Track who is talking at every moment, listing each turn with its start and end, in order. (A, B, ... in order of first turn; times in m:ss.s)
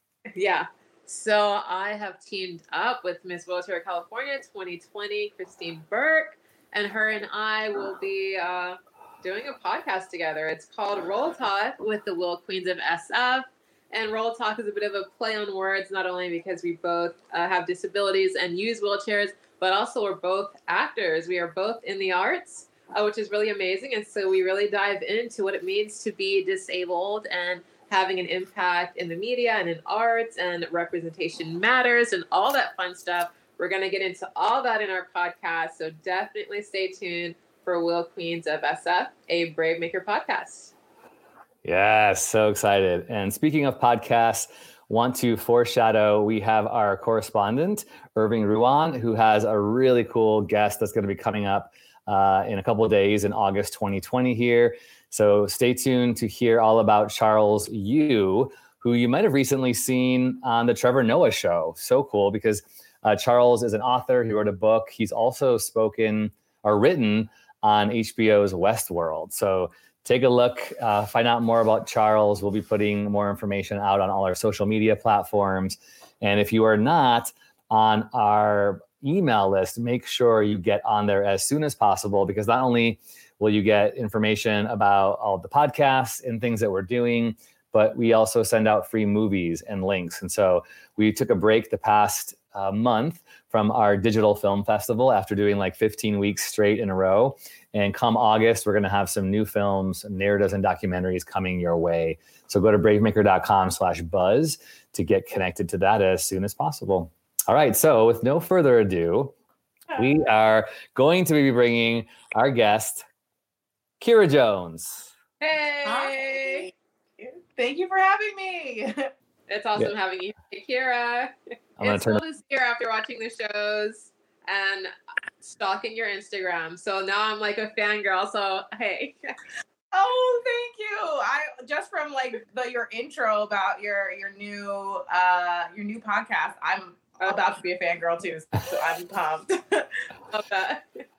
0:00.4-0:40.7 A
0:41.6-1:49.3 B
1:50.0-1:53.0 B
1:54.0-1:55.1 B
1:55.4-1:56.6 A
1:55.8-1:59.1 C
1:59.5-2:04.9 A
2:01.8-2:02.2 B
2:05.4-2:09.3 A
2:09.9-2:19.9 C
2:20.3-2:21.0 A